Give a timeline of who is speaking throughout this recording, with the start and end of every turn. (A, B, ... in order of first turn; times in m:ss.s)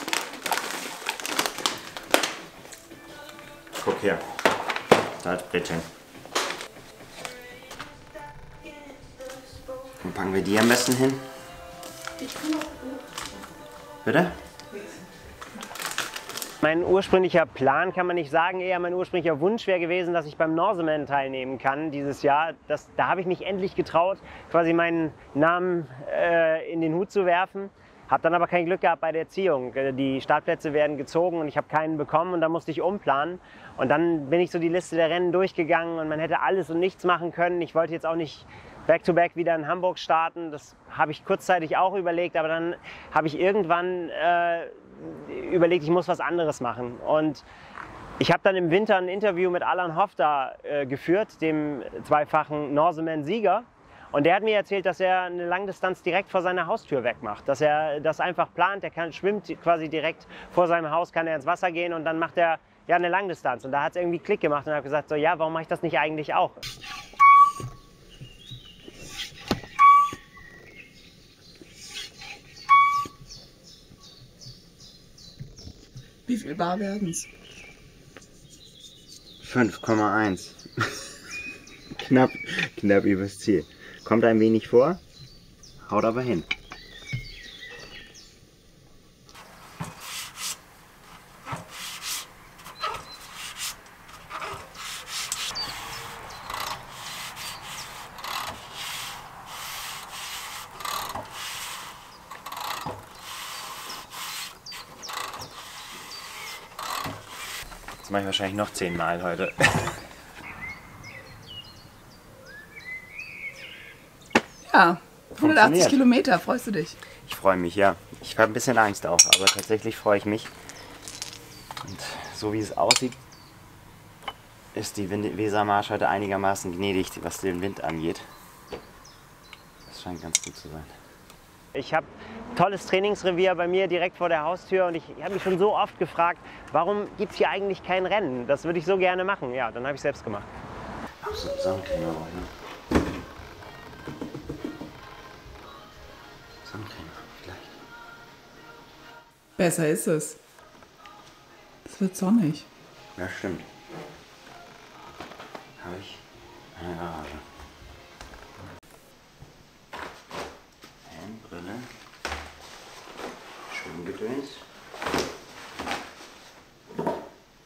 0:03.8-0:04.2 A
0:05.2-0:05.9 A
0:10.0-0:11.3 A
0:14.0-0:14.4 A
0:16.6-0:47.4 B
0:48.2-1:06.6 B
1:16.3-1:17.3 C
1:19.4-1:21.1 A
1:21.9-1:25.0 A
1:25.8-1:26.5 A
1:48.0-1:50.0 A
1:54.6-1:57.0 C
1:55.4-1:56.0 A
1:57.2-2:00.5 A
2:01.8-2:03.2 A
2:04.7-2:08.2 A
2:09.9-2:10.9 A
2:11.7-2:20.5 B
2:21.2-2:22.5 A
2:26.6-2:27.7 A
2:29.6-2:30.4 C
2:31.8-2:32.6 C
2:33.2-2:33.6 A
2:35.8-2:36.2 A
2:36.7-2:37.4 A
2:41.0-2:41.9 A
2:43.7-2:44.6 A